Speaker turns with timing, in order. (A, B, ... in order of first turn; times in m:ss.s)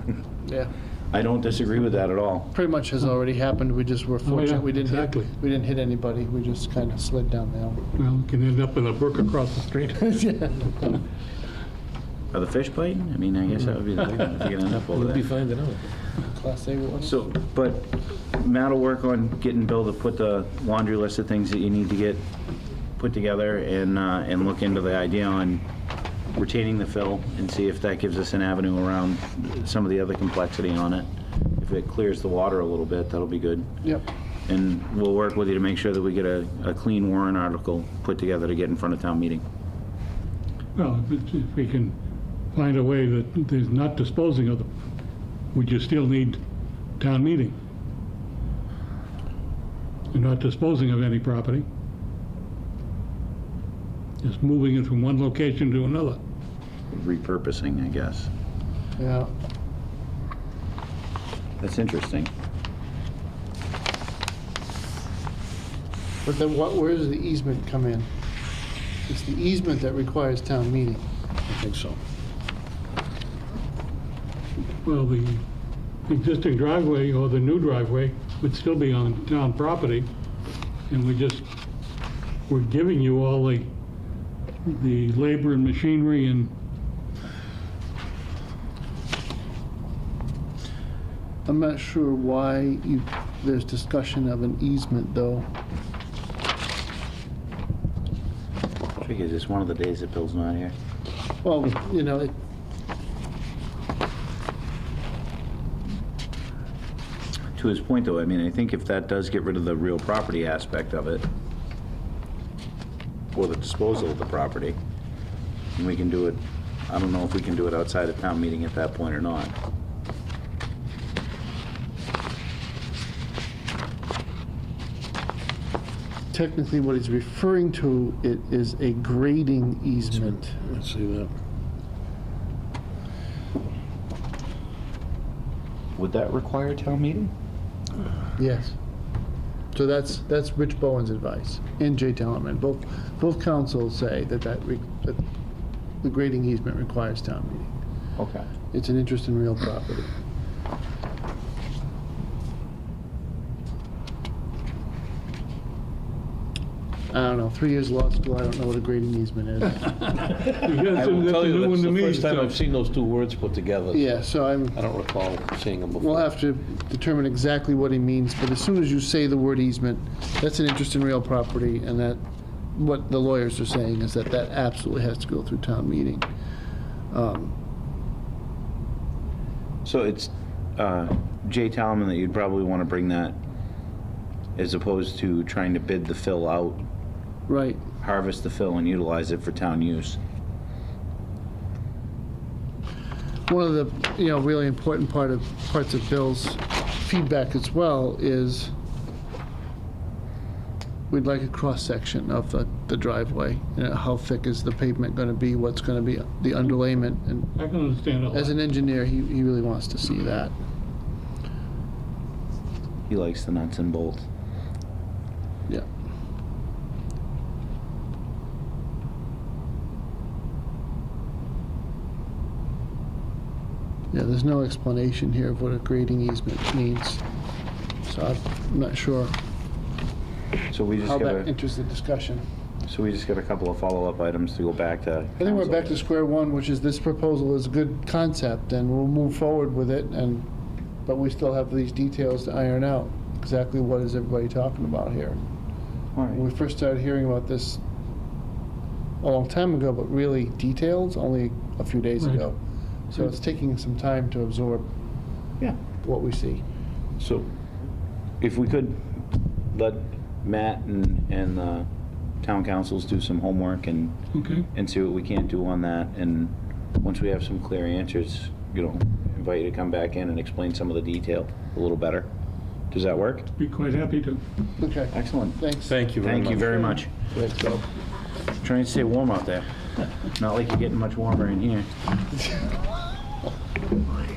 0:01.1-0:02.5 A
0:02.5-0:07.8 B
0:04.2-0:05.3 C
0:08.0-0:10.0 C
0:10.0-0:11.0 B
0:12.3-0:15.3 A
0:14.7-0:15.8 D
0:16.3-0:17.2 B
0:17.0-0:22.3 A
0:23.0-0:25.6 A
0:26.3-0:33.7 A
0:34.5-0:39.4 A
0:40.8-0:42.0 C
0:42.5-0:44.7 C
0:45.5-0:46.4 C
0:47.0-0:47.6 C
0:50.1-0:51.6 C
0:54.2-0:56.2 C
0:56.9-0:58.3 A
0:59.0-0:59.3 B
1:01.6-1:02.3 A
1:06.2-1:08.1 B
1:09.1-1:11.0 B
1:11.5-1:12.0 D
1:14.8-1:15.4 C
1:16.1-1:20.1 C
1:20.9-1:21.4 C
1:22.5-1:23.7 C
1:24.6-1:26.5 C
1:31.4-1:35.4 B
1:39.0-1:40.7 A
1:41.4-1:42.3 B
1:47.5-1:51.2 A
1:53.3-1:54.8 A
1:55.7-1:59.5 A
2:06.3-2:10.5 B
2:10.5-2:11.3 D
2:16.0-2:17.3 A
2:18.4-2:18.7 B
2:19.7-2:25.2 B
2:26.0-2:27.7 B
2:28.2-2:28.5 A
2:28.7-2:30.1 B
2:37.1-2:40.2 B
2:40.4-2:44.1 D
2:40.5-2:42.6 C
2:43.9-2:44.8 B
2:44.7-2:46.3 D
2:45.9-2:52.2 B
2:52.7-2:56.2 B
2:57.1-2:57.5 B
2:59.8-3:03.4 A
3:04.6-3:06.8 A
3:07.5-3:07.8 B
3:08.0-3:10.2 A
3:13.5-3:18.7 B
3:21.1-3:27.5 B
3:27.6-3:28.6 C
3:28.3-3:30.5 B
3:33.1-3:34.3 A
3:44.1-3:47.2 B
3:48.1-3:49.3 B
3:50.7-3:51.5 A
3:51.0-3:52.4 B
3:52.8-3:56.0 A
3:55.4-4:00.5 B
4:01.0-4:05.4 B
4:06.2-4:06.4 A
4:06.3-4:07.8 B
4:09.2-4:12.6 B
4:13.1-4:14.8 B
4:16.0-4:16.6 B
4:17.2-4:17.5 A
4:18.4-4:21.9 A
4:22.4-4:24.2 A
4:24.3-4:24.6 C
4:24.7-4:32.3 A
4:32.9-4:33.5 A
4:33.6-4:34.4 C
4:34.8-4:36.0 B
4:35.1-4:35.6 A
4:35.9-4:37.8 D
4:36.2-4:37.1 A
4:36.6-4:36.9 B
4:38.6-4:39.7 A
4:40.3-4:41.9 A